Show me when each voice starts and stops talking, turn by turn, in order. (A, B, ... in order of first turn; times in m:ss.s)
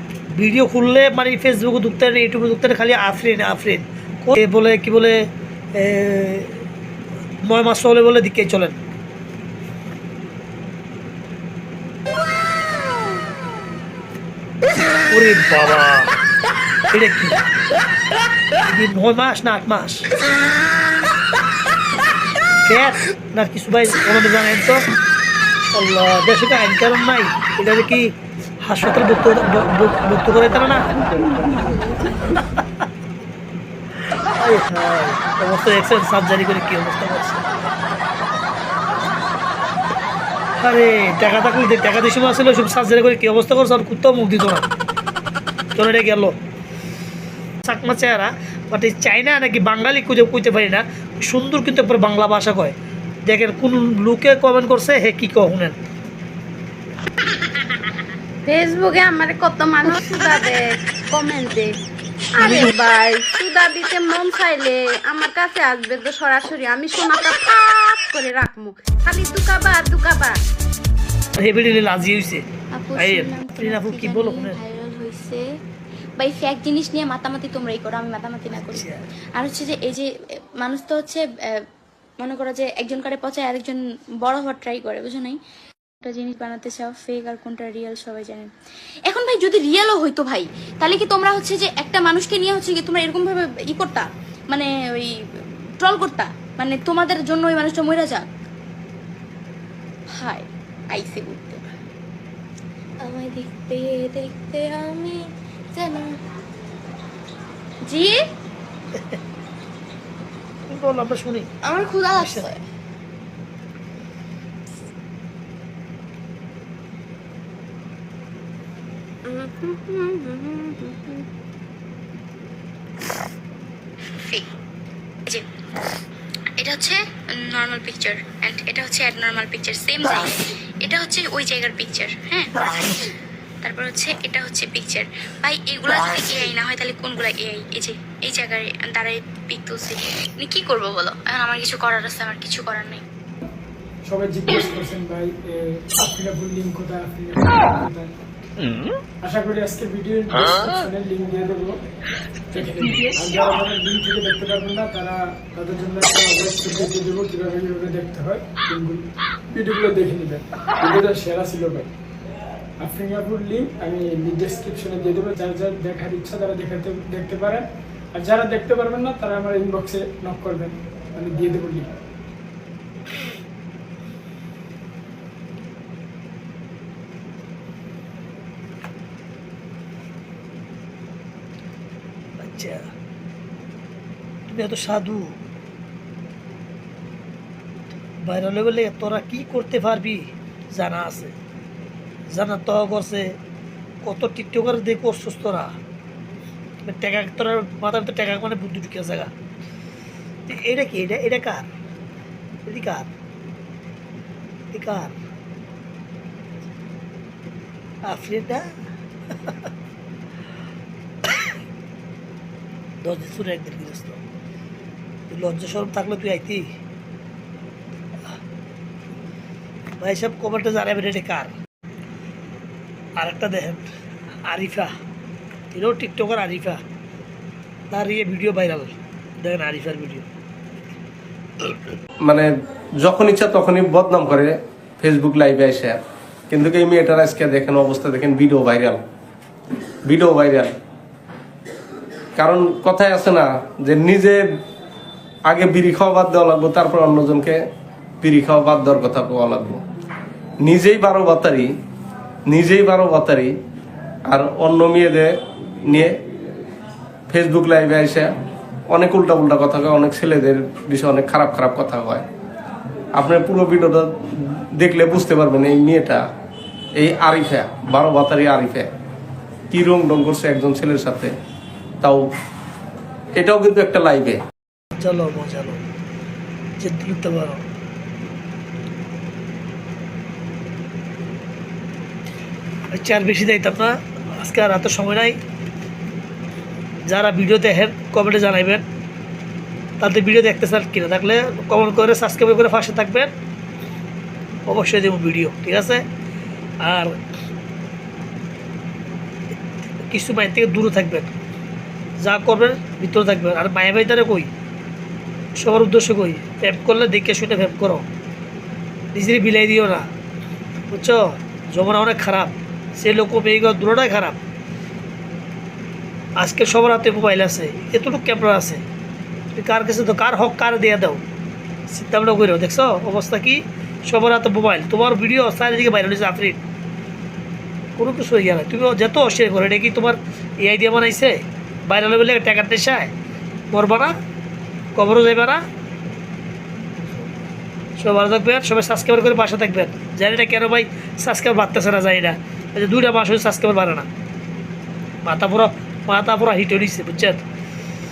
0:00.3-0:06.6 A
0:07.4-0:08.8 A
0:15.1-0:16.1 A
0:16.9-0:17.4 A
0:18.7-0:20.1 A
0:22.6-0:24.8 A
0:25.7-0:30.9 A
0:32.2-0:32.8 A
0:34.2-0:37.6 A
0:40.6-0:44.7 A
0:45.7-0:46.4 A
0:47.6-0:55.8 A
0:58.4-1:01.7 B
1:02.4-1:10.4 B
1:11.4-1:12.4 A
1:12.7-1:15.4 C
1:13.0-1:14.6 A
1:16.2-1:20.1 C
1:18.5-1:19.0 A
1:20.6-1:21.3 C
1:22.2-1:25.4 C
1:26.0-1:28.5 C
1:29.1-1:35.1 C
1:35.8-1:38.3 C
1:40.2-1:41.6 C
1:43.0-1:46.1 C
1:47.8-1:48.2 C
1:50.7-1:51.5 A
1:51.6-1:52.6 C
1:52.1-1:52.5 A
1:59.2-2:01.2 B
2:06.6-2:23.0 C
2:24.0-2:28.1 D
2:29.2-2:31.8 D
2:32.5-2:41.9 D
2:42.8-2:51.9 D
3:02.4-3:02.9 A
3:04.5-3:05.4 A
3:08.2-3:11.4 A
3:12.3-3:13.4 A
3:14.0-3:15.8 A
3:16.8-3:19.3 A
3:20.5-3:21.7 A
3:22.6-3:23.1 A
3:24.7-3:25.2 A
3:28.0-3:28.7 A
3:29.4-3:29.7 A
3:33.0-3:34.2 A
3:35.3-3:36.7 A
3:40.0-3:41.5 A
3:43.2-3:43.8 A
3:44.4-3:44.9 A
3:45.7-3:46.8 A
3:47.9-3:50.3 A
3:53.0-3:59.0 E
4:00.0-4:00.7 E
4:02.4-4:04.4 E
4:05.5-4:07.6 E
4:08.2-4:09.8 E
4:10.6-4:11.7 E
4:12.5-4:13.5 E
4:14.3-4:15.3 E
4:15.9-4:16.1 E
4:17.3-4:18.3 E
4:18.9-4:22.2 E
4:23.2-4:26.2 E
4:27.0-4:28.9 E
4:29.7-4:31.3 E
4:33.4-4:34.4 E
4:35.0-4:35.8 A
4:36.8-4:37.6 A
4:42.9-4:45.4 A
4:47.1-4:48.8 A
4:50.0-4:53.3 A
4:54.7-4:56.0 A
4:56.8-4:57.2 A
5:00.1-5:01.4 A
5:02.2-5:04.5 A
5:05.5-5:08.1 A
5:09.1-5:10.1 A
5:10.9-5:14.4 A
5:16.4-5:18.8 A
5:19.5-5:21.2 A
5:21.9-5:26.6 A
5:28.0-5:33.1 A
5:33.7-5:34.2 A
5:34.9-5:35.6 A
5:38.0-5:44.1 A
5:45.2-5:47.4 A